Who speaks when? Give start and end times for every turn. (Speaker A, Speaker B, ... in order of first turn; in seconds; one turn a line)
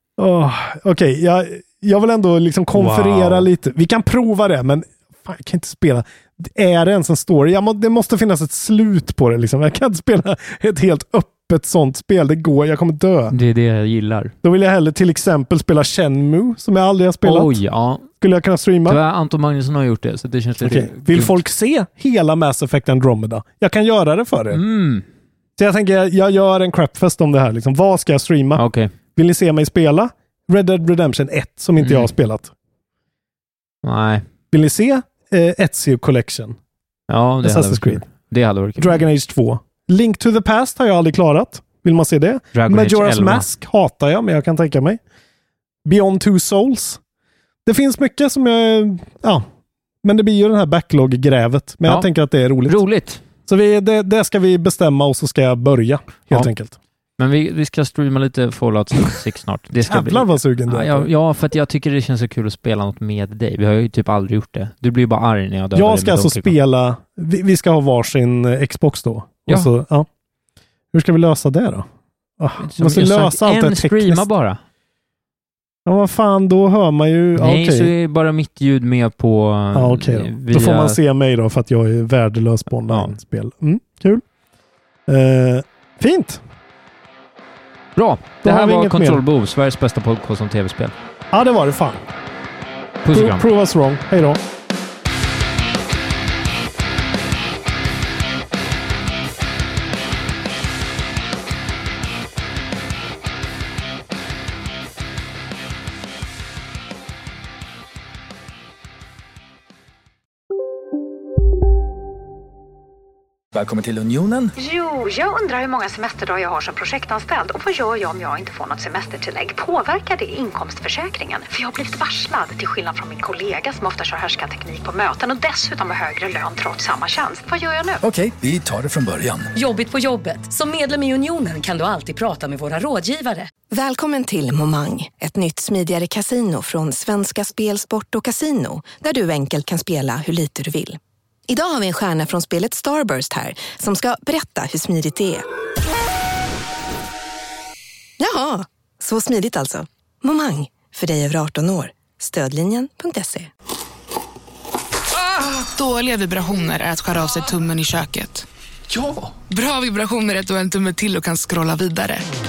Speaker A: 0.2-13.3
Speaker B: 2.7-3.5
Speaker B: 13.3-14.3
Speaker A: 14.4-17.6
Speaker B: 17.2-18.1
Speaker A: 18.2-19.0
Speaker B: 18.9-21.4
Speaker A: 20.6-24.6
Speaker B: 24.5-25.0
Speaker A: 25.6-32.5
Speaker B: 28.5-28.9
Speaker B: 31.8-32.1
Speaker B: 33.8-34.2
Speaker A: 34.5-36.6
Speaker B: 37.1-39.0
Speaker A: 37.4-38.0
Speaker A: 38.8-45.0
Speaker B: 42.5-43.5
Speaker A: 45.8-47.0
Speaker A: 47.6-49.5
Speaker A: 50.0-52.8
Speaker B: 52.7-53.2
Speaker A: 53.5-56.7
Speaker B: 57.2-66.5
Speaker A: 59.7-61.1
Speaker A: 65.7-70.1
Speaker A: 70.9-71.8
Speaker A: 72.4-74.3
Speaker B: 72.6-74.6
Speaker A: 75.8-77.9
Speaker B: 77.4-81.0
Speaker A: 79.7-84.2
Speaker B: 82.9-83.1
Speaker A: 85.1-86.4
Speaker B: 88.0-90.9
Speaker A: 88.4-89.2
Speaker A: 91.3-92.1
Speaker B: 93.0-93.5
Speaker A: 93.1-94.4
Speaker C: 113.5-114.5
Speaker D: 114.6-127.9
Speaker C: 128.0-129.5
Speaker E: 129.5-133.5
Speaker F: 133.7-145.4
Speaker F: 148.2-153.5
Speaker G: 155.3-158.4
Speaker G: 159.5-162.3